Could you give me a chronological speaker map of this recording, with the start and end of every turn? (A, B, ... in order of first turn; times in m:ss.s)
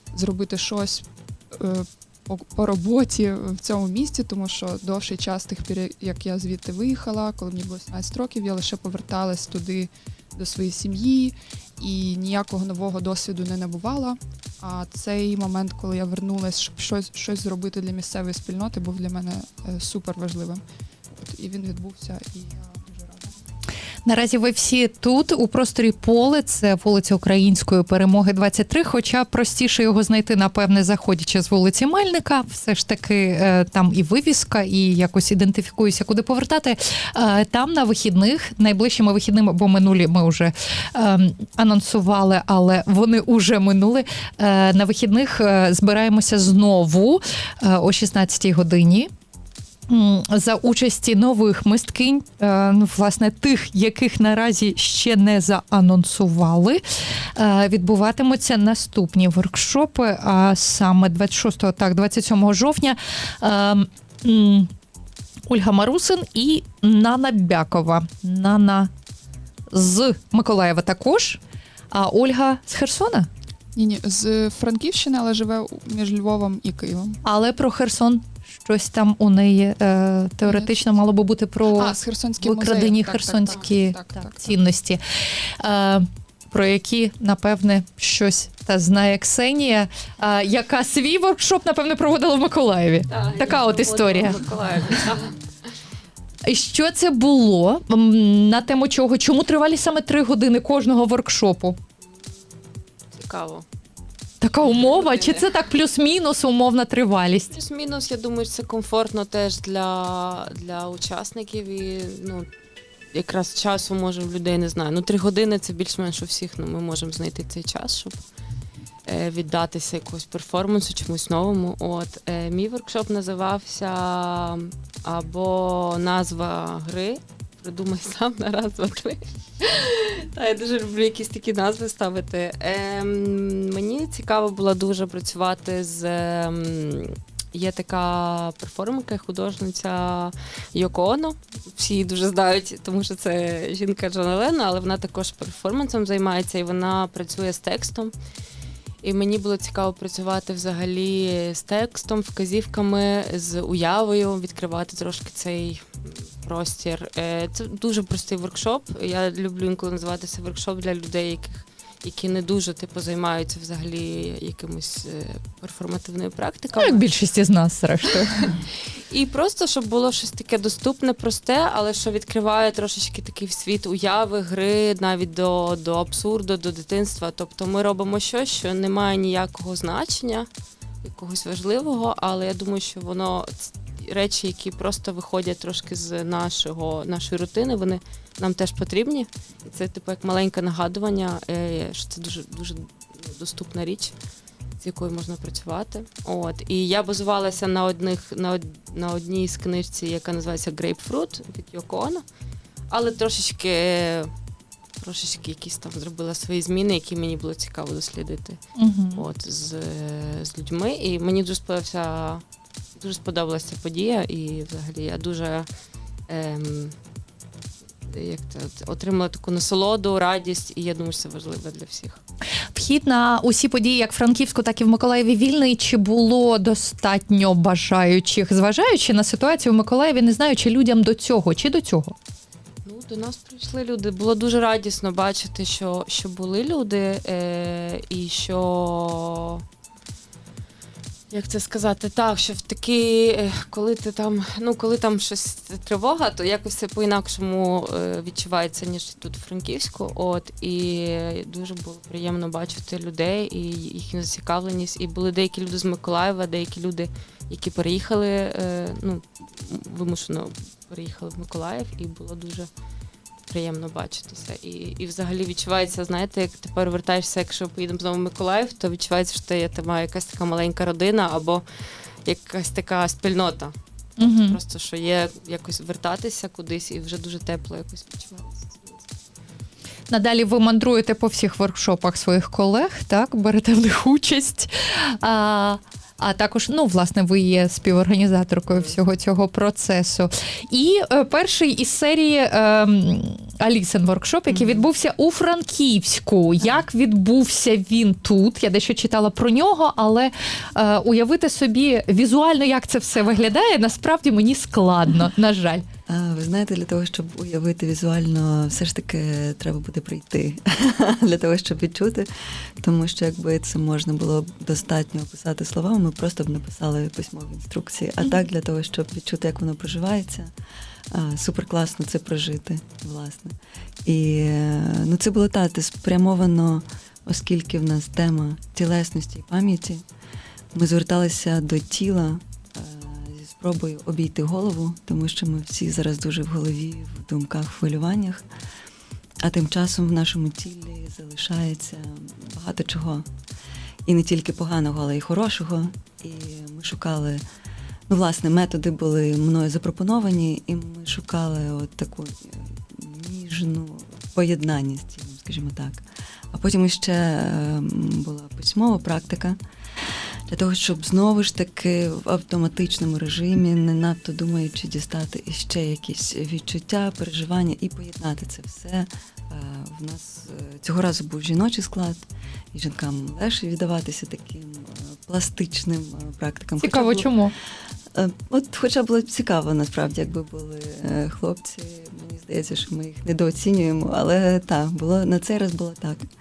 0:00.1-0:20.6 A
0:21.1-0:23.3 A
0:24.0-0:49.1 B
0:49.9-1:04.7 B
1:05.5-1:08.9 B
1:09.7-1:11.4 B
1:11.9-1:13.3 B
1:13.8-1:17.2 A
1:17.2-1:34.4 B
1:20.4-1:20.8 A
1:21.8-1:24.5 A
1:33.1-1:35.4 C
1:36.4-1:41.8 B
1:42.0-1:43.6 C
1:44.4-1:47.5 B
1:44.6-1:45.5 C
1:47.5-1:52.5 C
1:53.1-1:58.2 C
1:59.1-2:28.1 C
2:29.0-2:47.0 C
2:46.8-2:48.6 B
2:48.4-3:00.5 C
3:01.0-3:14.1 C
3:14.8-3:22.2 C
3:22.9-3:24.3 C
3:25.0-3:28.6 C
3:28.8-3:29.2 B
3:29.2-3:32.4 C
3:33.0-3:35.7 C
3:36.3-3:37.0 C
3:38.0-3:42.2 C
3:42.7-3:52.2 B
3:52.8-3:59.6 C
4:01.3-4:22.7 C
4:23.5-4:31.6 C
4:32.2-4:39.1 C
4:34.2-4:34.6 B
4:40.1-5:05.8 B
4:48.7-4:49.0 C
4:54.5-4:54.9 C
5:06.1-5:20.5 D
5:21.1-5:30.0 D
5:30.7-5:38.4 D
5:39.4-5:43.3 D
5:44.1-5:47.4 D
5:48.1-5:59.6 D
6:00.5-6:17.3 D
6:16.8-6:17.5 B
6:18.1-6:26.2 D